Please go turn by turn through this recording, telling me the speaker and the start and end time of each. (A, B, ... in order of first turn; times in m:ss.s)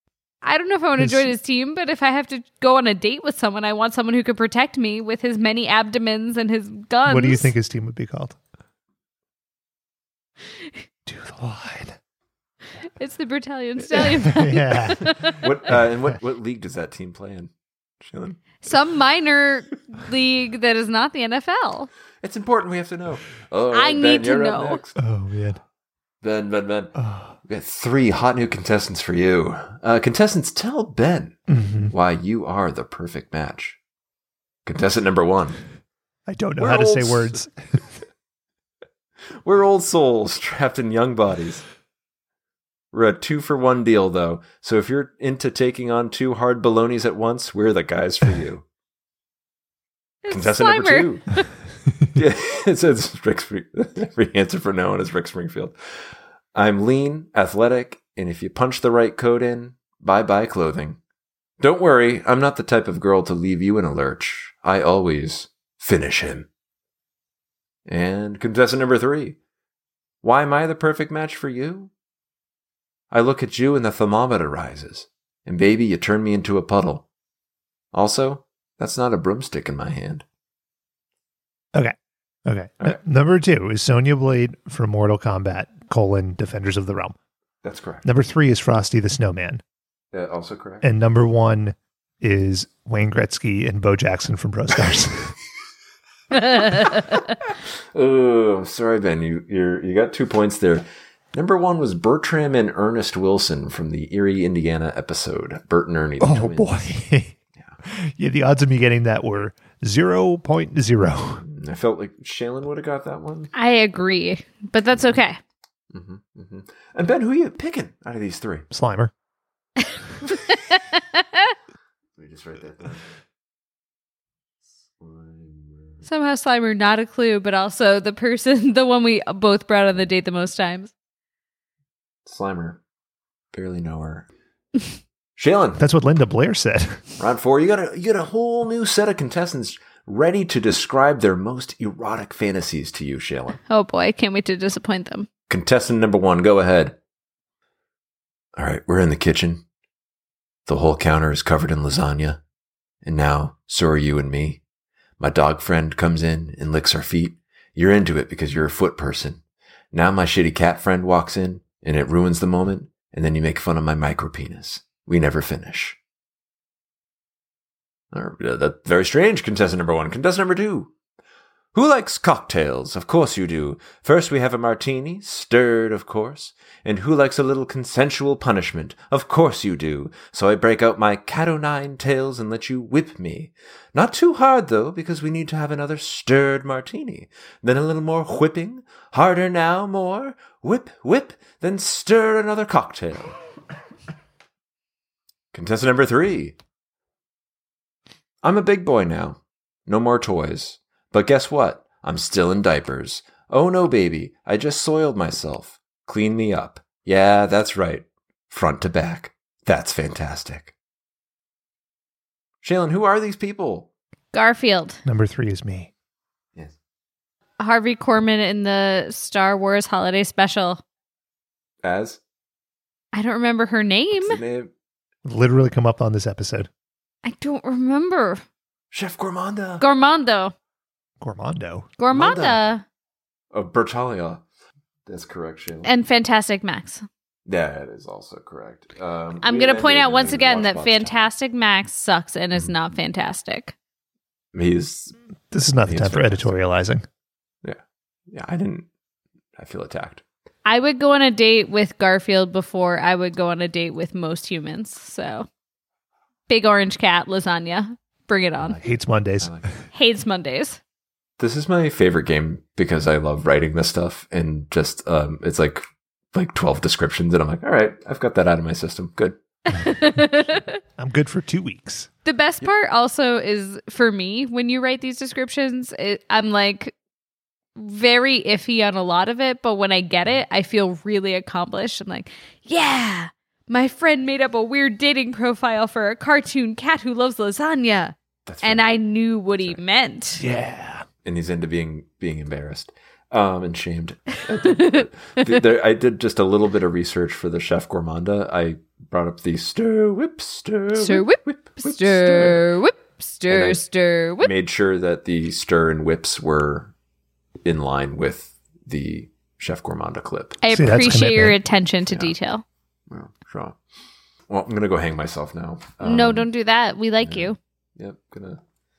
0:00.4-0:07.5 A
0:01.0-0:01.3 B
0:07.1-0:08.4 B
0:11.1-0:12.0 B
0:13.0-0:15.4 A
0:13.9-0:15.8 B
0:15.4-0:17.5 C
0:18.0-0:18.6 C
0:18.6-0:21.9 A
0:22.2-0:25.0 C
0:23.7-0:24.8 A
0:25.0-0:25.6 B
0:26.2-0:26.9 C
0:27.0-0:27.4 B
0:27.5-0:33.8 C
0:31.5-0:31.9 B
0:34.7-0:35.6 C
0:36.3-0:37.5 B
0:36.6-0:37.5 C
0:39.4-0:41.6 C
0:42.9-0:48.6 C
0:50.2-0:51.5 A
0:50.3-0:51.2 C
0:52.1-0:55.8 C
0:56.5-1:01.0 C
1:01.6-1:06.5 C
1:07.9-1:09.4 C
1:10.2-1:11.9 C
1:13.1-1:17.1 C
1:17.9-1:20.2 C
1:22.5-1:27.2 B
1:27.6-1:28.0 C
1:28.0-1:29.6 B
1:30.1-1:30.8 C
1:30.8-1:35.3 B
1:36.5-1:36.8 A
1:37.9-1:46.9 C
1:46.2-1:47.3 B
1:47.8-1:51.4 B
1:51.4-1:53.5 C
1:53.5-1:55.4 A
1:55.9-1:58.6 C
1:58.7-1:59.1 B
2:00.5-2:00.8 A
2:02.2-2:03.1 C
2:04.9-2:06.0 C
2:06.0-2:10.9 A
2:12.2-2:12.8 C
2:13.5-2:14.3 C
2:15.4-2:15.8 C
2:15.8-2:17.0 B
2:17.2-2:23.6 C
2:23.7-2:25.3 A
2:25.5-2:27.0 C
2:28.6-2:29.6 C
2:30.7-2:32.4 C
2:33.0-2:34.6 C
2:35.2-2:39.4 C
2:39.9-2:46.0 C
2:48.1-2:50.9 C
2:51.7-3:13.3 C
3:15.5-3:16.6 C
3:18.4-3:30.7 C
3:32.6-3:33.9 C
3:34.3-3:35.0 A
3:35.1-3:35.9 B
3:37.6-3:40.8 A
3:41.8-3:42.2 C
3:43.1-3:44.4 A
3:44.1-3:44.7 C
3:45.2-3:46.7 B
3:47.2-3:48.4 A
3:48.9-3:49.8 C
3:49.8-3:50.5 A
3:51.2-3:51.9 B
3:52.0-3:52.8 A
3:52.1-3:52.6 C
3:53.5-3:54.4 C
3:55.1-3:55.9 C
3:55.8-3:57.0 A
3:57.5-4:01.3 C
3:59.4-4:03.7 A
4:04.5-4:05.2 C
4:05.5-4:07.0 B
4:05.8-4:06.5 C
4:08.3-4:08.9 C
4:09.6-4:10.2 C
4:10.6-4:15.5 A
4:16.5-4:18.8 A
4:18.7-4:19.5 B
4:19.4-4:19.7 C
4:19.9-4:20.8 A
4:21.4-4:29.4 C
4:29.7-4:30.8 A
4:31.0-4:32.1 B
4:32.2-4:36.9 A
4:37.8-4:50.4 A
4:48.5-4:49.0 C
4:49.5-4:49.8 C
4:50.4-4:51.1 B
4:51.2-5:02.6 C
4:54.6-4:55.0 A
5:01.0-5:04.5 A
5:03.5-5:03.8 C
5:04.4-5:06.9 C
5:07.6-5:10.6 C
5:10.6-5:12.6 A
5:10.7-5:11.6 B
5:12.1-5:12.3 C
5:13.1-5:13.8 C
5:14.5-5:16.5 C
5:16.0-5:17.6 A
5:17.2-5:18.6 C